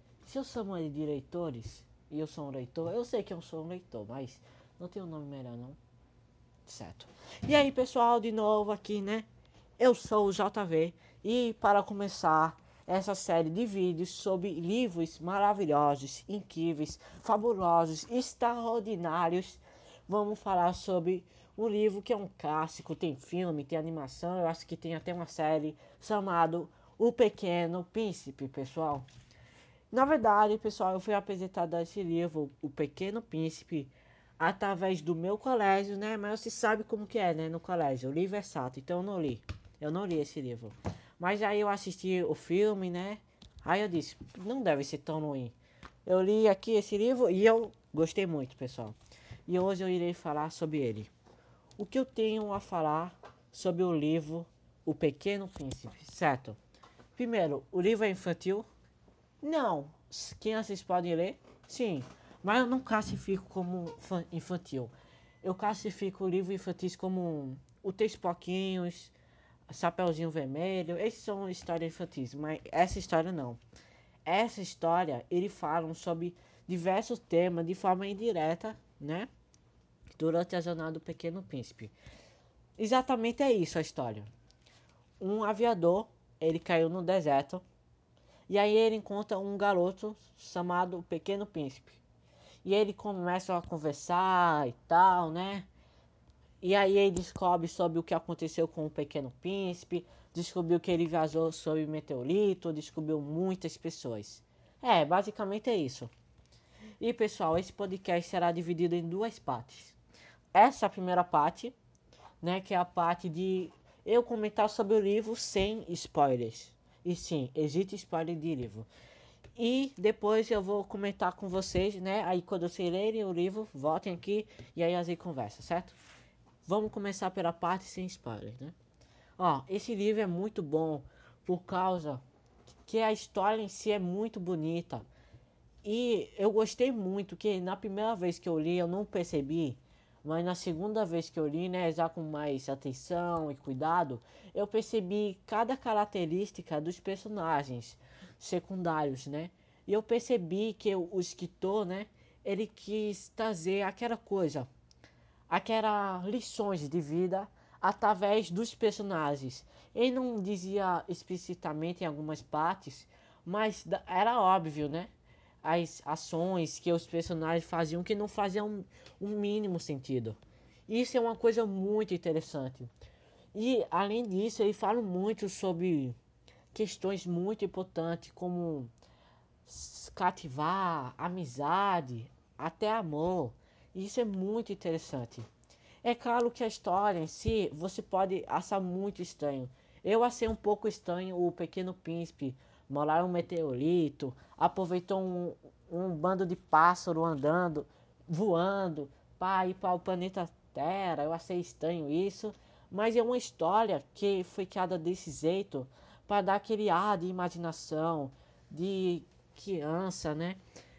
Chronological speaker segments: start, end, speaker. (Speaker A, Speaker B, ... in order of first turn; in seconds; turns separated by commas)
Speaker A: 0.2-5.8, Speaker A: 6.7-9.3, Speaker A: 9.8-29.1, Speaker A: 29.9-49.0, Speaker A: 49.5-51.1, Speaker A: 51.8-56.6, Speaker A: 57.2-58.7, Speaker A: 59.4-69.1, Speaker A: 69.7-73.6, Speaker A: 74.2-79.3, Speaker A: 80.2-81.9, Speaker A: 82.8-84.3, Speaker A: 85.2-87.6, Speaker A: 88.5-92.0, Speaker A: 92.6-95.7, Speaker A: 96.6-106.1, Speaker A: 107.0-110.0, Speaker A: 110.5-111.8, Speaker A: 112.4-118.9, Speaker A: 119.6-126.0, Speaker A: 126.6-128.8, Speaker A: 129.4-132.2, Speaker A: 132.9-135.1, Speaker A: 135.8-154.7, Speaker A: 155.5-165.1, Speaker A: 165.6-172.9, Speaker A: 173.5-176.2, Speaker A: 176.7-178.9, Speaker A: 179.7-185.5, Speaker A: 186.0-210.6